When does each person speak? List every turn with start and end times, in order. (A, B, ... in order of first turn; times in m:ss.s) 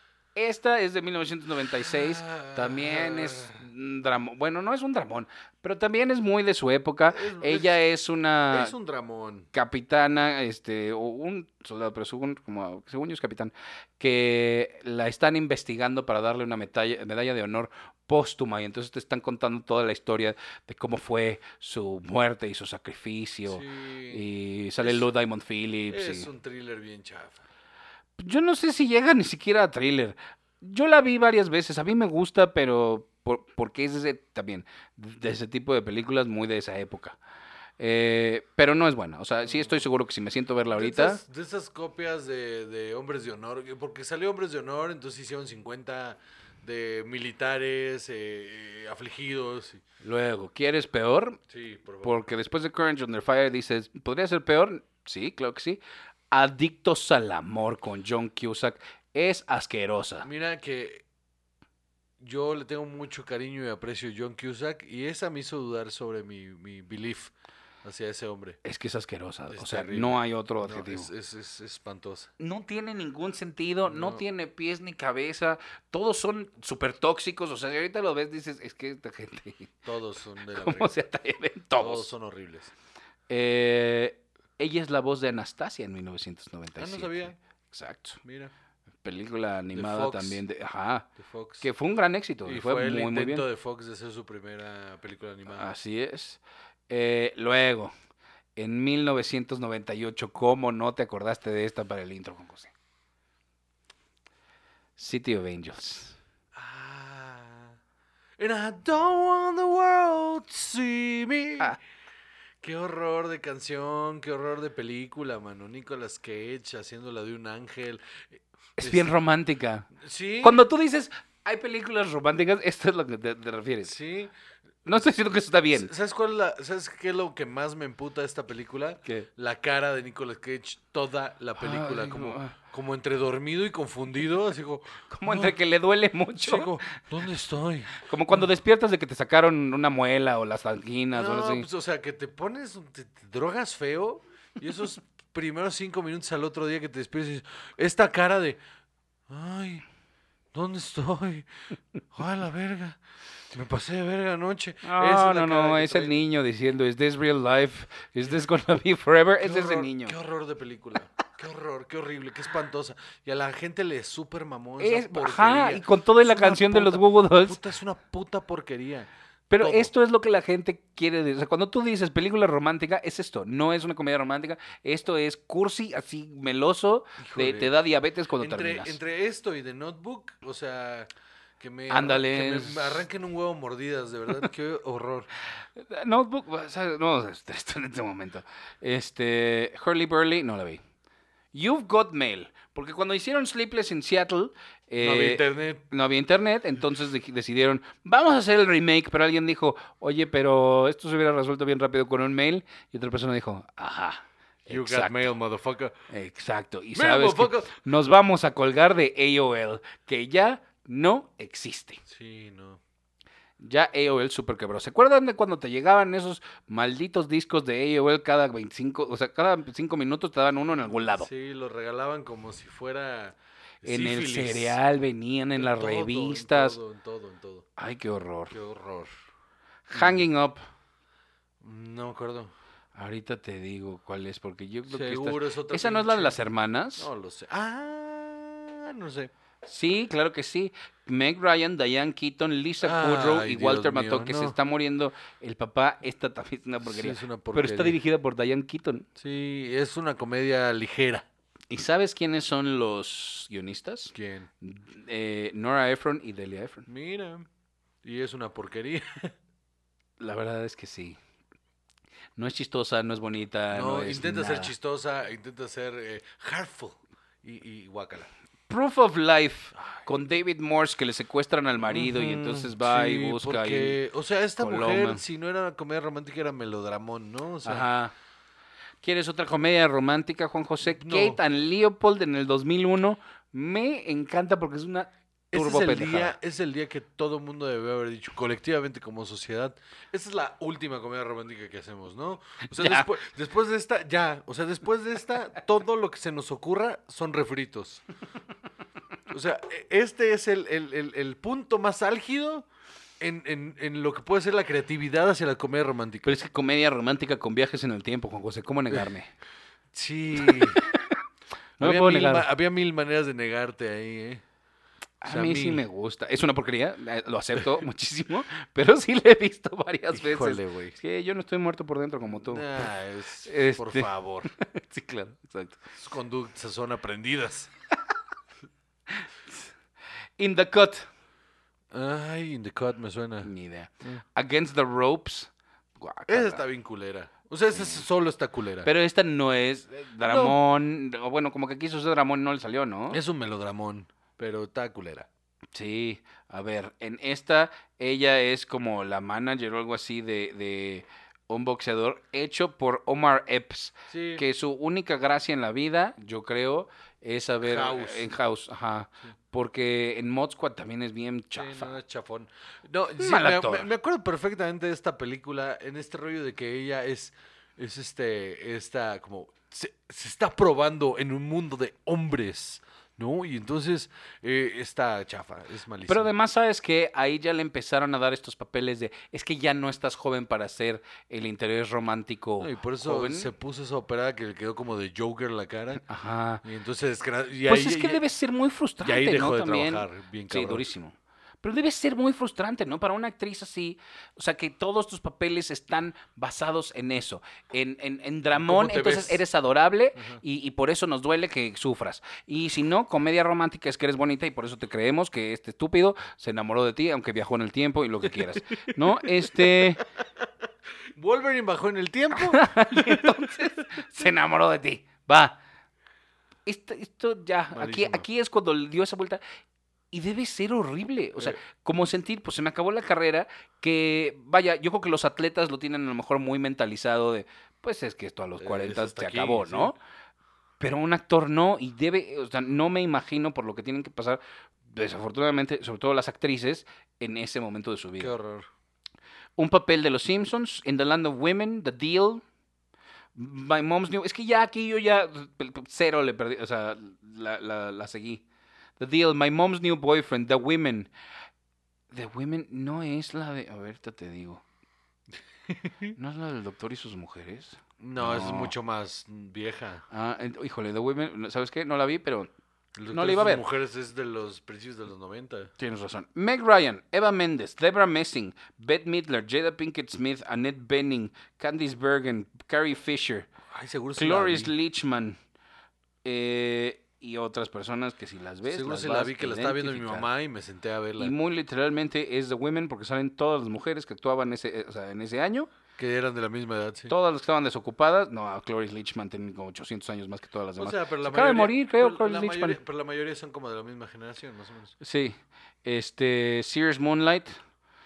0:00.4-0:08.7 A
0:01.7-0:03.6 B
0:07.1-0:07.8 B
0:08.5-0:09.5 B
0:09.5-0:26.3 A
0:23.4-0:24.3 B
0:24.8-0:25.1 B
0:25.9-0:27.4 B
0:28.2-0:37.2 A
0:37.8-0:41.2 A
0:39.5-0:39.8 B
0:40.7-0:49.8 B
0:50.0-0:51.4 A
0:51.5-0:52.2 B
0:52.0-1:00.3 A
1:00.2-1:01.0 B
1:02.2-1:07.3 B
1:07.8-1:08.6 B
1:08.6-1:11.1 A
1:09.5-1:12.3 B
1:12.4-1:19.8 A
1:13.8-1:14.2 B
1:19.8-1:21.0 B
1:20.5-1:22.1 A
1:21.8-1:22.7 B
1:23.3-1:28.2 A
1:26.8-1:27.4 B
1:28.2-1:28.5 B
1:29.0-1:31.1 A
1:29.7-1:30.4 B
1:31.2-1:31.7 B
1:31.6-1:33.4 A
1:32.4-1:35.7 B
1:35.5-1:37.9 A
1:38.6-1:42.7 A
1:45.0-1:46.2 A
1:46.6-1:47.8 B
1:48.4-1:51.8 B
1:52.6-1:58.2 B
1:58.8-1:59.9 A
1:58.8-1:59.1 B
2:00.0-2:00.6 B
2:00.4-2:03.9 A
2:03.8-2:04.3 B
2:04.8-2:05.9 A
2:05.7-2:15.6 B
2:11.6-2:12.6 A
2:15.1-2:16.8 A
2:16.4-2:18.5 B
2:18.0-2:21.7 A
2:21.1-2:28.6 B
2:29.3-2:29.8 B
2:30.5-2:31.4 B
2:32.1-2:33.0 B
2:33.5-2:36.2 B
2:34.8-2:40.2 A
2:39.4-2:49.9 B
2:44.8-2:47.6 A
2:49.5-2:59.0 A
2:57.2-2:57.7 B
2:58.4-3:05.3 B
3:01.9-3:03.1 A
3:05.8-3:10.8 A
3:11.5-3:25.3 A
3:15.0-3:15.8 B
3:24.7-3:26.0 B
3:26.1-3:32.0 A
3:26.9-3:27.7 B
3:32.1-3:32.8 B
3:33.6-3:41.3 A
3:41.1-3:44.8 B
3:43.8-3:46.8 A
3:45.6-3:47.7 B
3:47.8-3:48.5 A
3:48.5-3:49.1 B
3:49.9-3:50.6 A
3:49.9-3:50.3 B
3:51.6-3:52.5 B
3:52.9-3:57.1 A
3:54.8-3:56.4 B
3:57.0-3:59.3 B
3:59.6-4:09.1 A
4:02.8-4:04.6 B
4:06.8-4:08.0 B
4:09.2-4:11.3 B
4:11.7-4:16.8 A
4:14.1-4:14.5 B
4:16.9-4:17.5 B
4:18.0-4:19.3 B
4:20.2-4:21.2 A
4:22.4-4:24.7 A
4:23.7-4:28.3 B
4:28.7-4:34.0 A
4:31.8-4:37.9 B
4:34.6-4:35.2 A
4:37.6-4:38.1 A
4:39.0-4:46.4 A
4:40.8-4:41.4 B
4:45.5-4:58.0 B
4:52.7-4:53.1 A
4:59.3-5:02.7 B
5:03.2-5:06.4 B
5:06.2-5:09.3 A
5:09.9-5:10.8 B
5:10.5-5:11.0 A
5:11.8-5:12.5 A
5:11.8-5:14.4 B
5:15.2-5:22.8 A
5:15.2-5:15.8 B
5:17.6-5:17.8 B
5:20.1-5:21.0 B
5:22.3-5:24.5 B
5:23.4-5:25.8 A
5:25.9-5:27.7 B
5:30.4-5:31.1 A
5:31.9-5:33.5 B
5:33.4-5:36.6 A
5:36.3-5:38.9 B
5:37.7-5:38.0 A
5:38.8-5:43.2 A
5:40.2-5:40.6 B
5:43.1-5:45.3 B
5:45.7-6:01.9 A
5:54.1-5:54.4 B
5:57.6-5:58.3 B
6:01.6-6:16.3 B
6:03.2-6:03.9 A
6:16.1-6:23.5 A
6:22.6-6:26.0 B
6:26.0-6:26.6 A
6:26.6-6:28.3 B
6:27.7-6:50.0 A
6:29.0-6:30.9 B
6:38.5-6:39.4 B
6:49.2-6:50.0 B
6:51.2-6:53.7 B
6:52.4-6:55.6 A
6:56.7-6:59.4 A
6:57.7-6:58.3 B
7:00.1-7:10.0 A
7:08.6-7:10.0 B
7:10.8-7:18.3 A
7:18.2-7:18.7 B
7:19.6-7:22.4 A
7:23.3-7:28.4 A
7:29.0-7:31.1 A
7:32.1-7:34.6 A
7:35.7-7:36.2 B
7:36.2-7:38.7 A
7:38.0-7:40.0 B
7:40.1-7:42.5 A
7:43.0-7:45.7 B
7:43.1-7:43.6 A
7:45.8-7:53.5 A
7:53.7-7:54.7 B
7:54.2-7:55.4 A
7:56.2-8:00.3 A
7:58.6-8:01.4 B
8:01.2-8:05.7 A
8:06.0-8:07.1 B
8:07.1-8:12.8 A
8:10.8-8:14.9 B
8:15.0-8:17.6 A